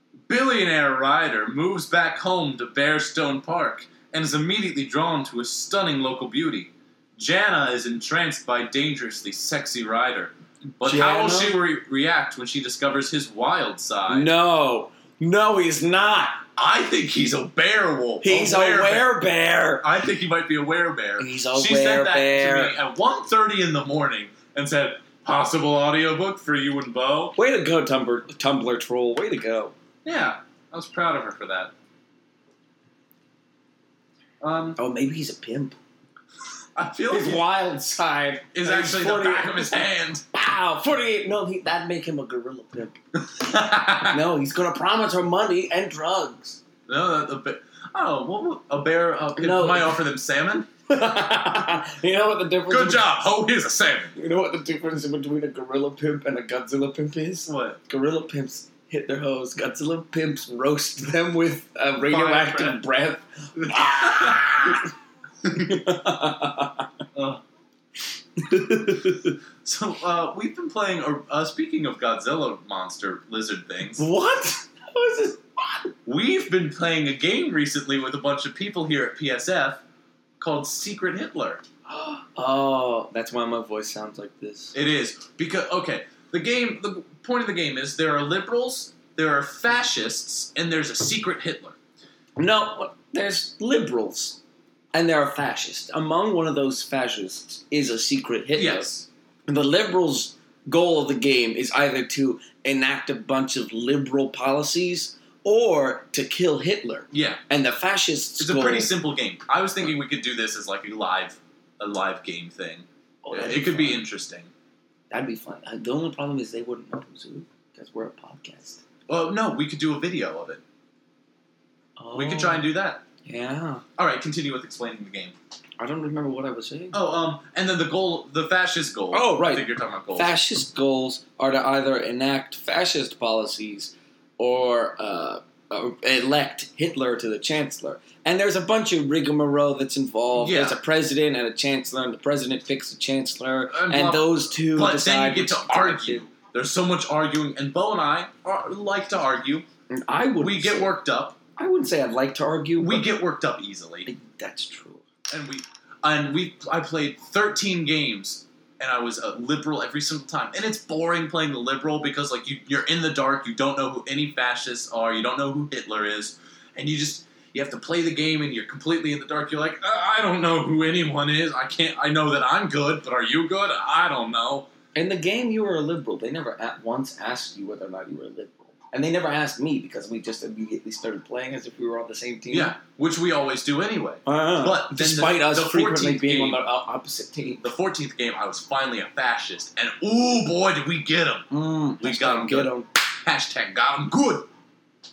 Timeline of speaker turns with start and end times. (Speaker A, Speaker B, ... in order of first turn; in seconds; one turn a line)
Speaker A: 0.3-14.3
Speaker B: 10.8-11.6
Speaker B: 14.1-16.4
Speaker A: 16.6-19.1
Speaker B: 18.2-19.8
Speaker A: 19.8-27.4
Speaker B: 21.2-22.8
Speaker B: 27.4-29.7
Speaker A: 30.0-31.7
Speaker A: 34.4-34.8
Speaker B: 34.8-35.8
Speaker A: 36.8-37.4
Speaker B: 37.1-43.0
Speaker A: 38.5-40.2
Speaker A: 43.2-44.2
Speaker B: 44.0-46.6
Speaker A: 46.9-50.7
Speaker B: 49.4-50.0
Speaker B: 50.9-53.1
Speaker A: 52.7-54.1
Speaker B: 54.1-64.9
Speaker A: 57.5-57.8
Speaker A: 62.1-62.8
Speaker A: 63.6-64.9
Speaker A: 65.4-65.8
Speaker B: 65.5-66.9
Speaker A: 67.1-67.4
Speaker B: 68.4-69.3
Speaker A: 69.6-74.0
Speaker B: 74.0-75.9
Speaker A: 76.0-79.8
Speaker A: 80.4-81.6
Speaker B: 81.9-84.8
Speaker A: 84.7-91.8
Speaker B: 92.4-94.4
Speaker B: 94.9-98.9
Speaker A: 98.5-99.1
Speaker B: 99.5-108.9
Speaker A: 107.1-107.4
Speaker A: 108.4-114.5
Speaker B: 113.2-114.0
Speaker B: 115.1-118.8
Speaker A: 119.1-120.6
Speaker B: 122.0-122.7
Speaker A: 122.1-123.0
Speaker B: 123.2-123.8
Speaker A: 124.0-125.3
Speaker B: 125.8-127.0
Speaker A: 126.9-130.3
Speaker B: 129.1-146.2
Speaker A: 140.3-140.8
Speaker A: 143.7-149.6
Speaker B: 149.9-150.9
Speaker A: 150.4-151.4
Speaker B: 151.6-153.1
Speaker A: 152.8-154.1
Speaker B: 154.1-155.0
Speaker A: 155.3-174.7
Speaker B: 174.9-182.8
Speaker A: 182.5-186.6
Speaker B: 184.2-187.7
Speaker A: 187.6-191.5
Speaker B: 191.5-192.9
Speaker A: 192.0-194.5